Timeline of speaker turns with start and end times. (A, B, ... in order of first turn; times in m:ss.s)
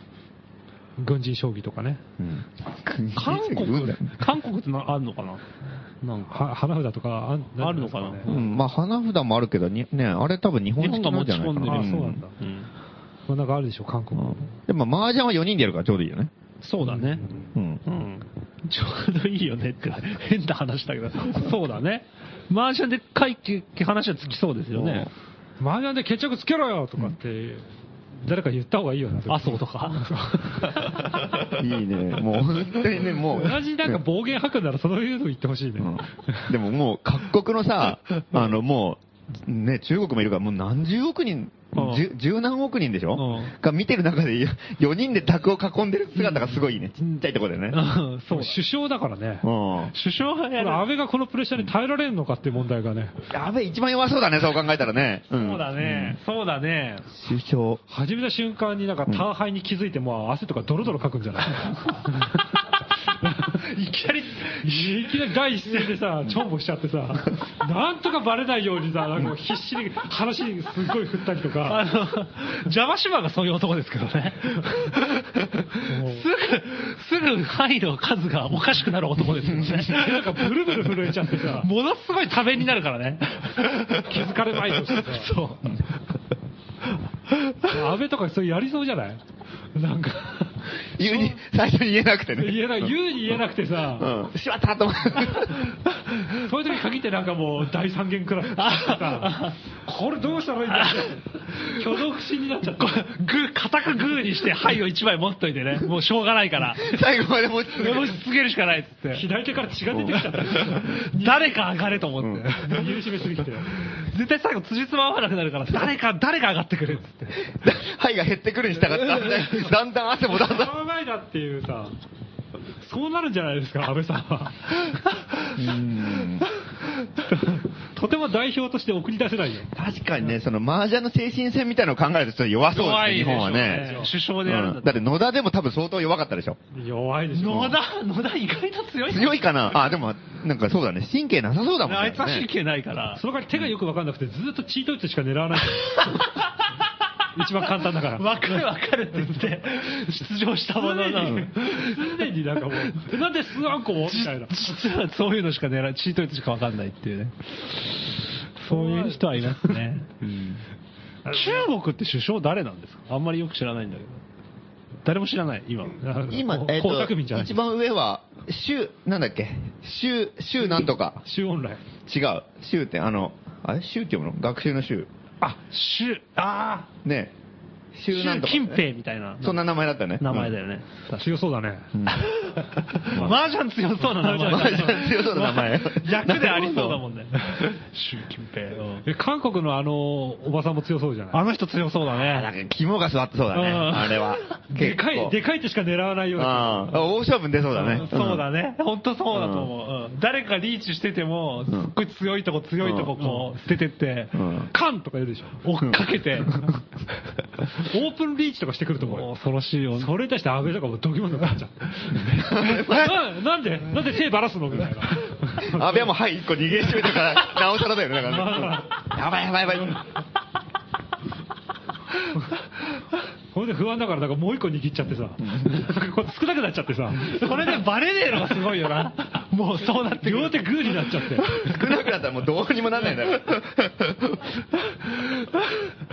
0:01.0-0:02.0 A
0:02.2-0:04.1 B
0:03.2-0:05.4 C
0:06.0-0:06.4 C
0:06.3-0:08.3 A
0:07.6-0:08.6 C
0:08.3-0:12.2 B
0:10.8-0:12.7 C
0:11.6-0:12.3 A
0:13.3-0:14.6 A
0:14.2-0:16.3 B
0:16.6-0:17.2 C
0:16.8-0:17.5 A
0:17.6-0:17.8 B
0:17.8-0:25.1 C
0:24.8-0:25.1 B
0:25.6-0:31.0 A
0:29.3-0:30.2 C
0:31.5-0:34.0 B
0:33.3-0:36.5 A
0:35.8-0:47.8 B
0:41.8-0:42.0 C
0:43.2-0:43.6 C
0:47.7-0:48.6 C
0:48.3-0:49.5 A
0:49.4-0:49.9 B
0:49.9-0:50.8 C
0:50.6-0:53.2 A
0:53.3-0:56.2 B
0:55.3-0:57.1 C
0:57.1-0:57.8 B
0:57.9-1:02.5 A
1:03.2-1:03.6 A
1:03.5-1:05.0 C
1:04.6-1:11.9 A
1:11.6-1:20.5 C
1:15.8-1:16.3 A
1:19.6-1:21.7 A
1:21.5-1:24.0 C
1:23.9-1:25.3 A
1:24.9-1:25.8 C
1:27.6-1:29.2 A
1:29.8-1:31.4 A
1:31.0-1:32.9 B
1:32.4-1:34.2 A
1:34.0-1:35.7 B
1:36.3-1:43.0 A
1:38.5-1:39.6 C
1:40.7-1:41.8 C
1:42.6-1:47.0 C
1:46.8-1:48.2 B
1:47.7-1:49.2 C
1:49.1-1:51.6 A
1:50.8-1:52.9 C
1:52.2-1:52.5 B
1:52.6-1:53.7 A
1:53.7-1:57.5 C
1:57.6-2:00.7 B
2:00.3-2:02.0 A
2:02.8-2:05.5 A
2:05.6-2:06.5 B
2:06.6-2:09.7 A
2:09.7-2:16.6 B
2:12.7-2:15.0 C
2:13.2-2:14.1 A
2:16.7-2:17.8 A
2:17.4-2:19.5 C
2:19.1-2:22.5 B
2:21.9-2:23.2 C
2:23.2-2:26.3 A
2:25.7-2:26.6 C
2:27.4-2:28.7 A
2:28.2-2:33.1 C
2:29.2-2:29.6 A
2:30.8-2:34.8 A
2:34.1-2:37.9 C
2:38.6-2:40.2 C
2:38.7-2:39.7 A
2:40.2-2:40.6 B
2:41.3-2:41.7 A
2:41.3-2:44.2 C
2:45.0-2:46.0 C
2:46.0-2:47.6 A
2:46.3-2:51.2 B
2:51.2-2:51.8 A
2:52.0-2:55.1 B
2:55.4-2:56.9 C
2:57.0-2:57.3 B
2:57.9-2:58.8 B
2:58.1-2:59.6 C
2:59.4-3:00.5 B
3:00.2-3:01.3 C
3:01.2-3:02.0 A
3:01.9-3:02.3 B
3:02.2-3:09.1 C
3:03.0-3:03.3 B
3:04.1-3:05.2 A
3:04.3-3:07.0 B
3:09.0-3:11.4 A
3:11.3-3:12.5 C
3:12.1-3:15.4 B
3:13.5-3:14.4 C
3:14.7-3:17.1 A
3:16.4-3:18.4 B
3:17.8-3:24.4 C
3:19.3-3:19.7 B
3:22.8-3:23.1 B
3:23.2-3:23.5 A
3:24.3-3:24.7 B
3:24.7-3:25.6 A
3:25.6-3:26.7 C
3:27.7-3:29.3 A
3:29.0-3:30.1 C
3:30.0-3:36.1 A
3:32.3-3:33.2 B
3:32.4-3:32.9 C
3:35.6-3:40.1 B
3:38.2-3:39.1 A
3:42.3-3:42.6 A
3:43.5-3:47.7 A
3:45.4-3:45.8 B
3:47.2-3:51.2 C
3:50.1-3:51.8 A
3:51.4-3:54.6 B